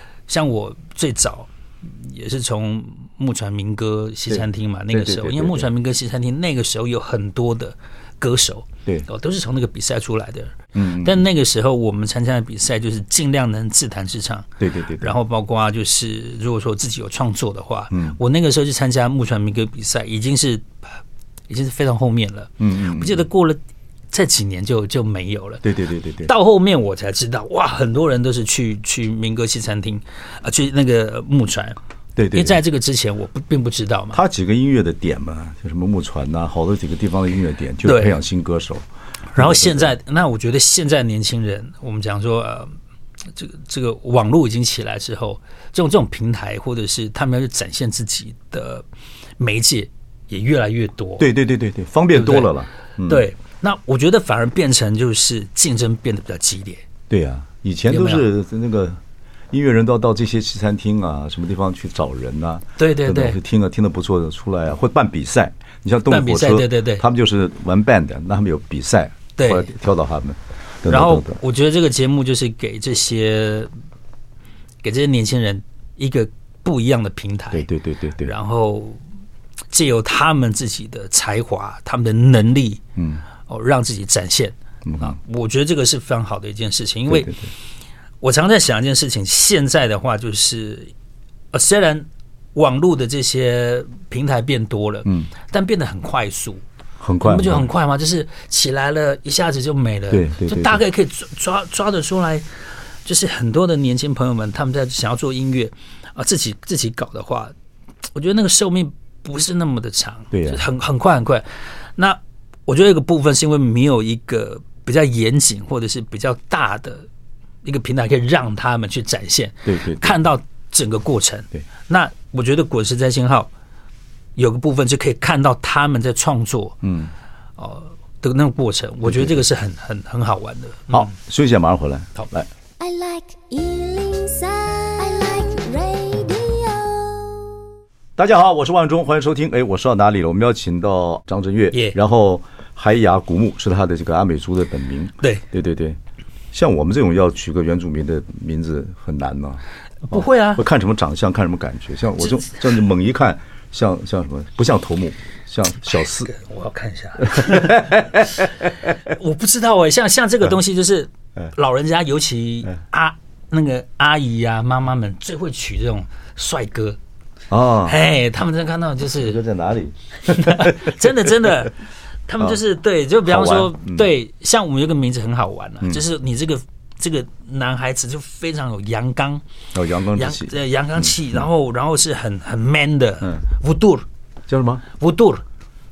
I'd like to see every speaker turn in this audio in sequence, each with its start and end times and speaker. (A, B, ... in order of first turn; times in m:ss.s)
0:00.3-0:14.5 A
0:04.3-0:05.7 B
0:10.7-0:11.2 B
0:14.6-0:15.1 B
0:15.0-0:20.7 A
0:17.9-0:18.2 B
0:21.5-0:23.6 A
0:22.6-0:23.2 B
0:24.1-0:25.6 A
0:25.6-0:26.3 B
0:26.2-0:31.8 A
0:32.2-0:32.6 B
0:32.3-0:34.2 A
0:34.1-0:38.8 B
0:37.8-0:38.2 A
0:39.3-0:42.7 A
0:39.4-0:39.9 B
0:43.3-0:48.8 A
0:49.4-0:51.3 A
0:51.2-0:53.2 B
0:52.1-0:52.5 A
0:53.0-0:56.8 A
0:57.1-0:59.0 B
0:57.9-0:58.2 A
0:59.5-1:11.4 B
1:02.8-1:03.4 A
1:06.1-1:07.0 A
1:09.4-1:09.7 A
1:10.9-1:13.7 A
1:14.8-1:17.7 A
1:17.5-1:18.3 B
1:18.2-1:19.0 A
1:19.7-1:22.8 A
1:23.0-1:23.2 B
1:23.4-1:27.3 A
1:24.8-1:25.2 B
1:27.1-1:27.5 B
1:28.2-1:30.9 A
1:31.5-1:36.6 A
1:37.0-1:37.6 B
1:37.2-1:42.4 A
1:40.1-1:40.8 B
1:43.0-1:47.5 A
1:48.1-1:51.4 A
1:50.3-1:50.6 B
1:52.0-1:57.0 A
1:57.6-2:03.5 A
1:59.6-2:00.2 B
2:04.4-2:06.8 A
2:06.8-2:07.1 B
2:07.6-2:11.1 A
2:09.0-2:09.4 B
2:10.9-2:12.5 B
2:12.8-2:17.6 C
2:18.2-2:26.0 B
2:26.5-2:36.3 B
2:30.1-2:30.6 A
2:36.0-2:47.0 A
2:37.2-2:38.5 B
2:47.5-2:48.0 B
2:47.8-2:49.4 A
2:49.2-2:51.5 B
2:50.3-2:51.7 A
2:52.3-2:59.4 A
2:53.2-2:54.1 B
2:59.7-3:01.4 B
3:00.1-3:04.0 A
3:04.5-3:04.8 B
3:04.9-3:05.4 A